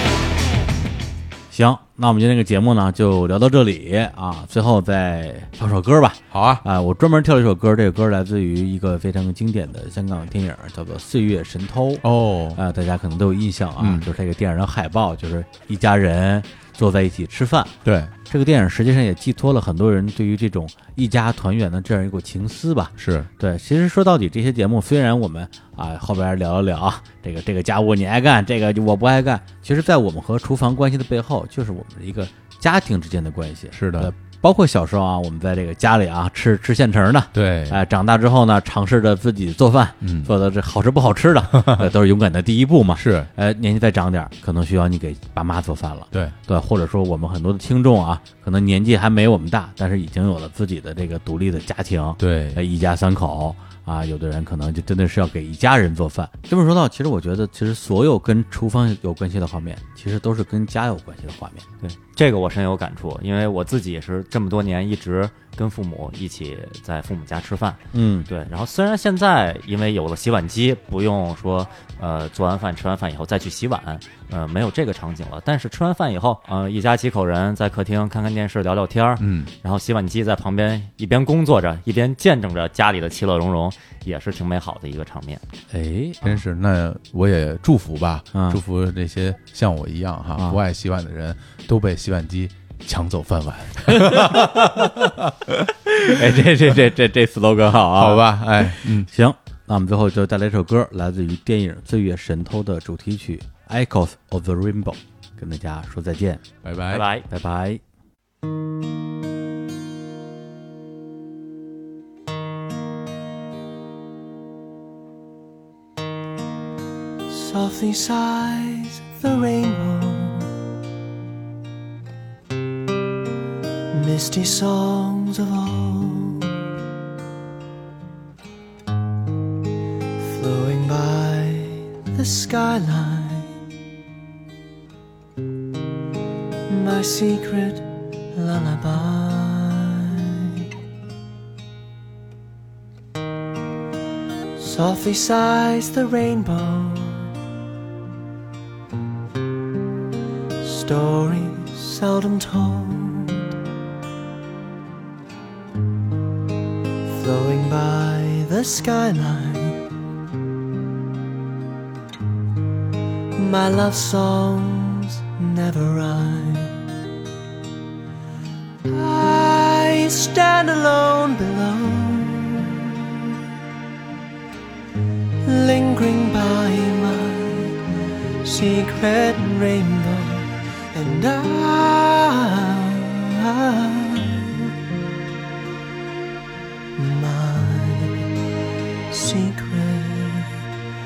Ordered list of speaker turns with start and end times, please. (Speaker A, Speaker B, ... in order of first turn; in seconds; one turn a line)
Speaker A: 1.5-17.7
Speaker B: 6.3-6.6
Speaker B: 12.0-12.6
Speaker B: 13.8-14.1
Speaker B: 17.8-18.1
Speaker A: 18.3-61.6
Speaker B: 23.0-23.3
Speaker B: 33.7-34.1
Speaker B: 37.3-37.8
Speaker B: 40.0-40.3
Speaker B: 41.5-41.9
Speaker B: 42.9-43.3
Speaker B: 52.2-52.6
Speaker C: 61.8-85.4
Speaker A: 67.9-68.3
Speaker B: 79.2-79.5
Speaker A: 85.7-86.2
Speaker B: 86.2-96.3
Speaker A: 88.3-88.6
Speaker A: 93.9-94.9
Speaker A: 96.0-106.4
Speaker B: 97.9-99.1
Speaker B: 106.6-107.1
Speaker C: 106.9-107.3
Speaker A: 107.3-107.8
Speaker D: 117.3-120.5
Speaker D: 123.9-126.6
Speaker D: 130.2-133.5
Speaker D: 136.7-140.7
Speaker D: 144.6-147.3
Speaker D: 150.6-153.5
Speaker D: 157.0-159.8
Speaker D: 163.3-166.9
Speaker D: 168.8-173.3
Speaker D: 175.4-184.7
Speaker D: 186.9-188.3
Speaker D: 189.1-190.6